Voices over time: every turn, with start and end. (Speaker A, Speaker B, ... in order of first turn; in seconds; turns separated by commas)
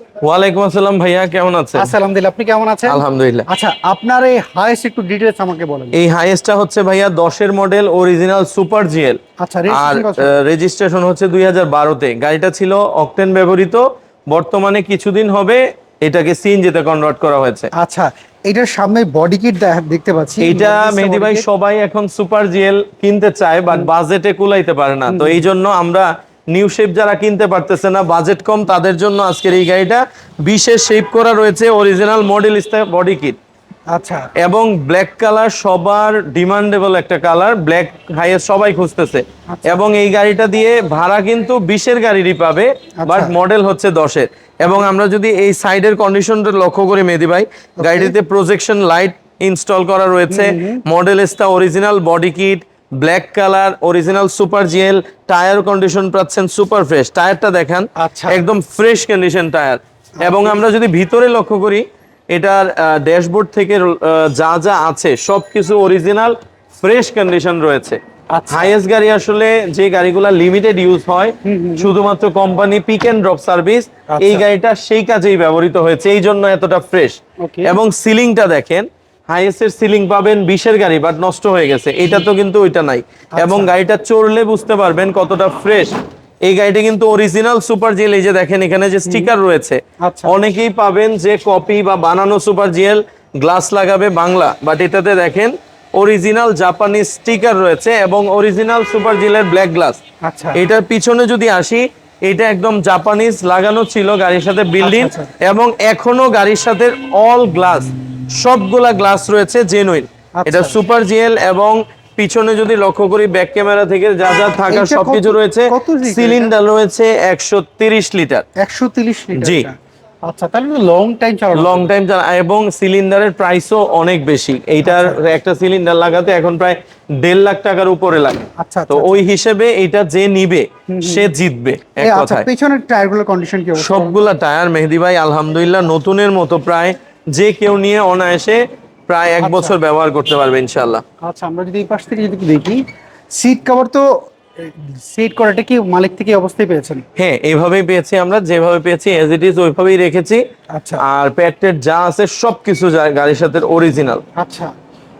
Speaker A: 0.2-1.9, Speaker B: 1.8-6.0, Speaker A: 2.9-3.5, Speaker A: 5.9-17.7, Speaker B: 9.4-10.3, Speaker B: 17.7-21.5, Speaker A: 20.4-33.4, Speaker B: 25.1-25.5, Speaker B: 33.9-34.3, Speaker A: 34.4-68.0, Speaker B: 39.5-39.8, Speaker B: 43.0-43.3, Speaker B: 47.8-48.1, Speaker B: 50.3-50.8, Speaker B: 58.0-58.4, Speaker B: 60.2-60.6, Speaker B: 68.3-68.7, Speaker A: 68.5-100.0, Speaker B: 71.4-71.9, Speaker B: 74.1-74.5, Speaker B: 77.4-77.8, Speaker B: 83.4-83.7, Speaker B: 89.1-89.3, Speaker B: 90.0-90.4, Speaker B: 100.2-100.6, Speaker A: 100.5-118.5, Speaker B: 104.8-105.3, Speaker B: 110.4-110.8, Speaker B: 114.6-116.5, Speaker B: 118.6-121.9, Speaker A: 119.3-119.7, Speaker A: 121.5-132.5, Speaker B: 124.8-125.2, Speaker B: 128.6-129.2, Speaker B: 130.9-131.3, Speaker B: 132.0-134.2, Speaker A: 133.8-141.0, Speaker B: 139.4-139.8, Speaker B: 141.2-142.8, Speaker B: 143.3-147.0, Speaker A: 147.2-150.4, Speaker B: 150.7-151.0, Speaker A: 151.0-154.2, Speaker B: 154.3-154.7